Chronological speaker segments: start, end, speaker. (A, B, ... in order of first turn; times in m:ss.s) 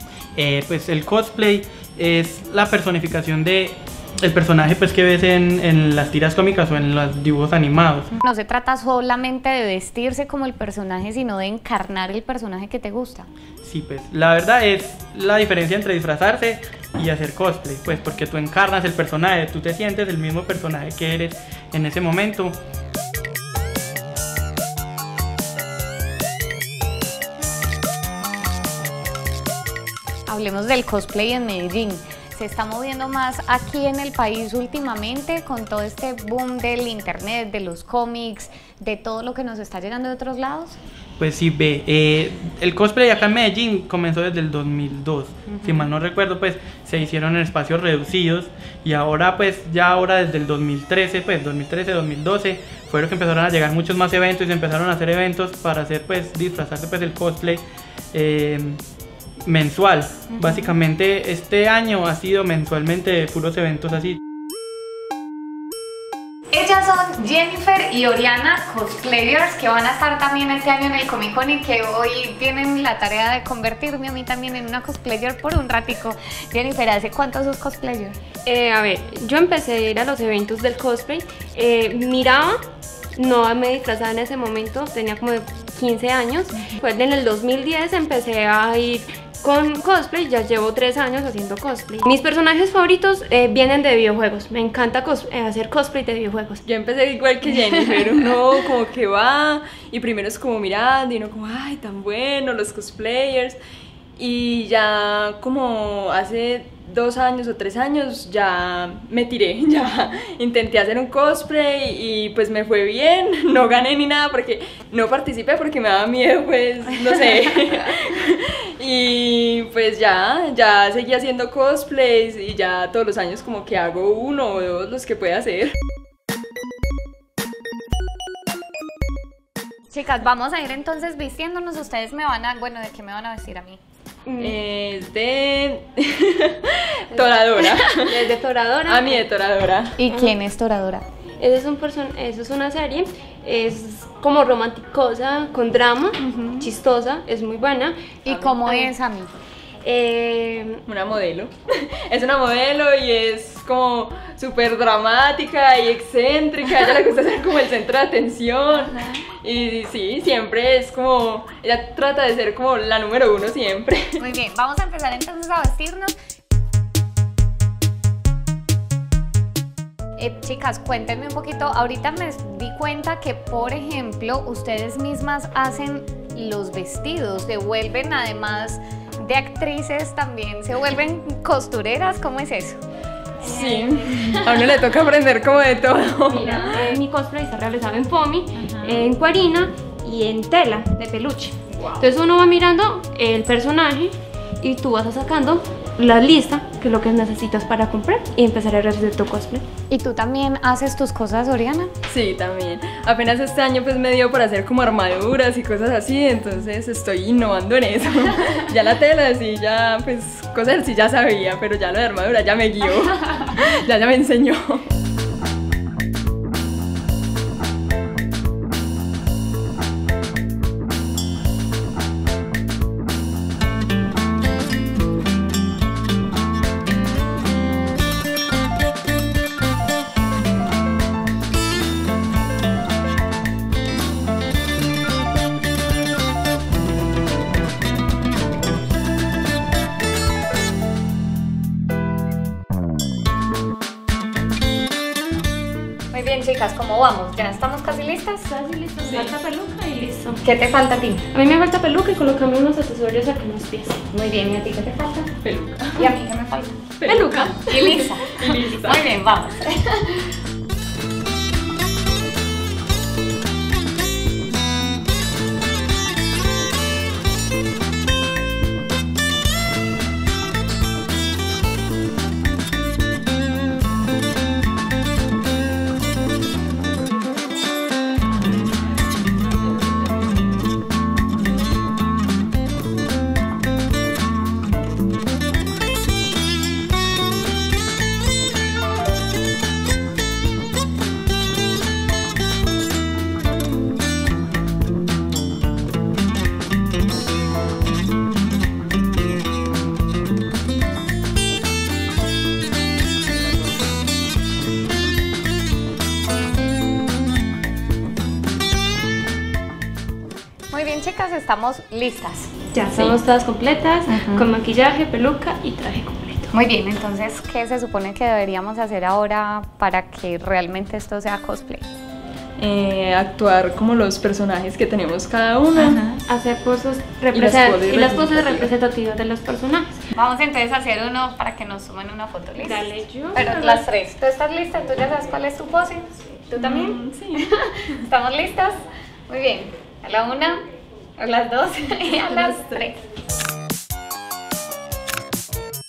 0:00.4-0:08.1 A
0:08.2-0:13.3 B
0:13.6-0:22.5 A
0:30.3-0:40.8 B
0:41.2-0:58.8 A
0:45.5-0:45.9 B
0:59.4-1:04.2 A
1:00.3-1:00.7 B
1:06.5-1:18.2 B
1:18.4-1:22.6 C
1:23.1-1:36.6 C
1:36.6-1:43.6 D
1:44.2-2:05.7 D
2:09.9-2:13.8 B
2:14.3-2:14.6 C
2:14.4-2:18.3 D
2:17.1-2:19.2 C
2:18.9-2:20.0 D
2:20.0-2:21.0 B
2:20.1-2:20.3 C
2:21.4-2:28.0 C
2:26.2-2:26.7 D
2:28.2-2:29.3 B
2:28.5-2:28.9 C
2:29.8-2:30.8 C
2:30.9-2:44.1 D
2:44.2-2:46.1 B
2:50.2-3:02.8 B
3:03.4-3:07.0 D
3:03.4-3:04.8 C
3:06.3-3:19.6 C
3:08.6-3:09.0 B
3:19.9-3:21.9 B
3:22.1-3:34.8 D
4:06.1-4:08.5 B
4:08.5-4:10.4 C
4:09.0-4:09.4 D
4:10.4-4:11.2 B
4:11.3-4:14.0 C
4:14.1-4:15.3 B
4:15.4-4:16.1 D
4:16.0-4:16.9 B
4:17.0-4:17.6 D
4:17.0-4:18.2 C
4:17.6-4:20.3 B
4:18.2-4:19.0 D
5:10.7-5:12.5 B
5:12.7-5:16.5 C
5:12.9-5:13.2 D
5:14.0-5:14.5 B
5:16.5-5:21.8 B
5:22.6-5:26.0 D
5:26.1-5:29.9 C
5:27.3-5:28.7 D
5:30.1-5:40.6 B
5:32.6-5:33.8 C
5:36.6-5:37.5 D
5:41.2-5:43.0 B
5:42.3-5:42.8 D